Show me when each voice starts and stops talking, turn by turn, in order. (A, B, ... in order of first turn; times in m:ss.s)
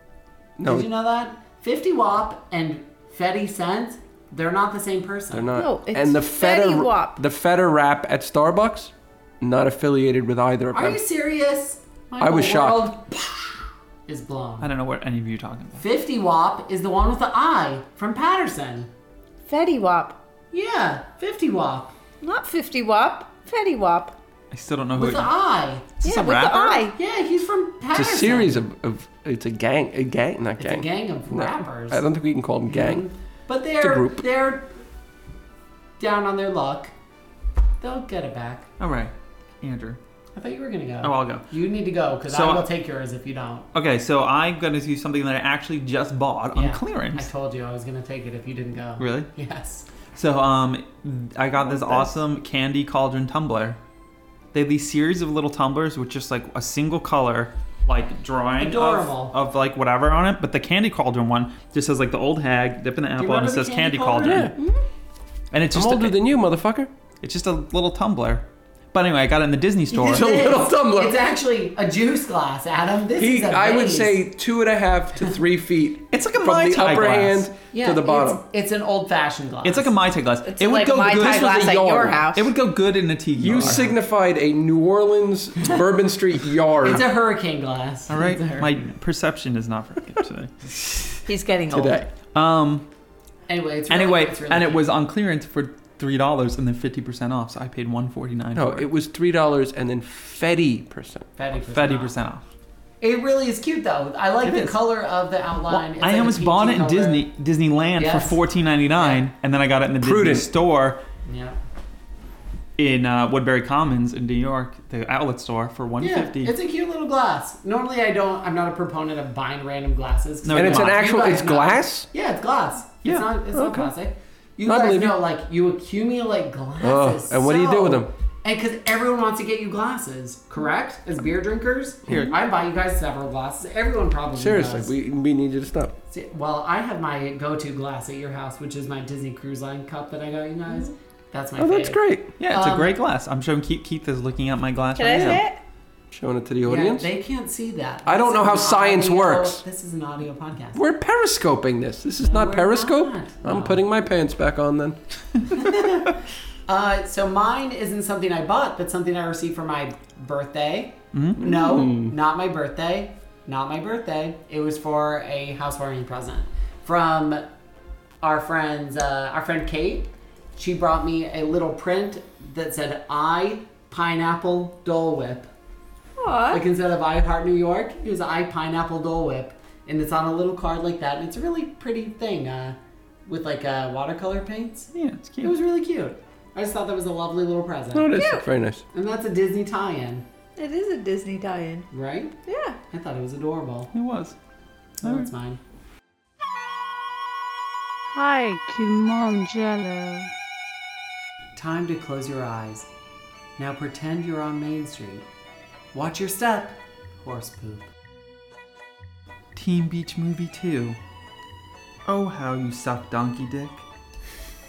0:00.6-0:00.9 A
0:00.6-0:05.5 B
0:05.3-0:11.0 A
0:05.6-0:07.2 C
0:10.7-0:13.5 B
0:12.2-0:13.0 A
0:14.1-0:14.7 B
0:14.6-0:15.8 D
0:15.8-0:18.9 B
0:19.5-0:20.2 C
0:20.5-0:21.9 B
0:22.2-0:24.2 C
0:24.5-0:25.3 D
0:25.0-0:26.0 B
0:26.0-0:26.8 D
0:26.0-0:27.0 C
0:26.9-0:28.6 B
0:27.9-0:33.1 A
0:30.6-0:32.0 B
0:32.7-0:34.7 B
0:33.8-0:34.2 A
0:36.0-0:36.9 B
0:37.8-0:38.7 B
0:38.8-0:40.0 D
0:40.4-0:43.7 B
0:41.0-0:41.5 D
0:42.3-0:42.7 D
0:43.7-0:47.3 D
0:46.5-0:49.9 B
0:49.0-0:49.3 D
0:50.1-0:53.8 D
0:51.6-0:52.1 B
0:54.5-1:04.5 D
0:58.6-0:59.3 B
1:03.2-1:04.5 B
1:04.2-1:04.6 A
1:05.5-1:06.2 D
1:05.7-1:06.9 A
1:07.2-1:10.3 D
1:09.9-1:14.2 B
1:10.0-1:11.2 A
1:13.2-1:18.4 A
1:16.1-1:17.5 D
1:17.7-1:19.9 B
1:19.6-1:23.9 D
1:20.4-1:22.5 C
1:21.4-1:22.1 A
1:23.4-1:27.1 A
1:26.8-1:28.8 B
1:28.1-1:31.2 D
1:31.3-1:32.0 C
1:31.7-1:32.1 A
1:32.3-1:32.9 D
1:33.5-1:34.8 B
1:33.9-1:38.9 D
1:38.6-1:41.3 A
1:41.4-1:42.1 B
1:41.7-1:42.4 D
1:43.0-1:47.2 B
1:44.4-1:44.8 D
1:45.7-1:51.0 D
1:48.0-1:48.4 B
1:49.0-1:49.2 B
1:50.0-1:50.5 A
1:51.3-1:51.6 B
1:52.8-1:56.5 D
1:56.0-2:14.9 B
2:00.4-2:01.1 D
2:00.5-2:02.1 A
2:03.0-2:03.8 D
2:03.6-2:03.9 A
2:04.6-2:05.2 A
2:06.8-2:08.1 A
2:12.1-2:12.4 D
2:14.4-2:16.0 A
2:16.1-2:22.9 B
2:21.6-2:22.3 A
2:22.4-2:25.4 D
2:25.0-2:25.6 C
2:26.1-2:27.1 A
2:26.6-2:30.8 B
2:28.1-2:29.6 A
2:30.8-2:35.0 A
2:32.2-2:33.8 B
2:35.5-2:36.2 B
2:36.7-2:47.4 B
2:41.1-2:41.5 D
2:41.4-2:42.1 A
2:48.2-2:55.5 B
2:56.2-2:56.6 C
2:56.5-3:04.9 B
3:04.9-3:05.6 D
3:05.4-3:08.1 B
3:07.9-3:08.8 A
3:08.1-3:08.4 C
3:08.9-3:10.2 B
3:10.6-3:11.9 C
3:11.9-3:12.4 B
3:12.5-3:12.8 C
3:12.9-3:13.9 B
3:13.9-3:14.4 D
3:15.0-3:15.3 D
3:15.0-3:15.6 B
3:18.1-3:20.3 E
3:21.6-3:22.9 B
3:23.6-3:25.3 B
3:25.9-3:27.9 B
3:29.6-3:31.0 D
3:32.1-3:33.8 D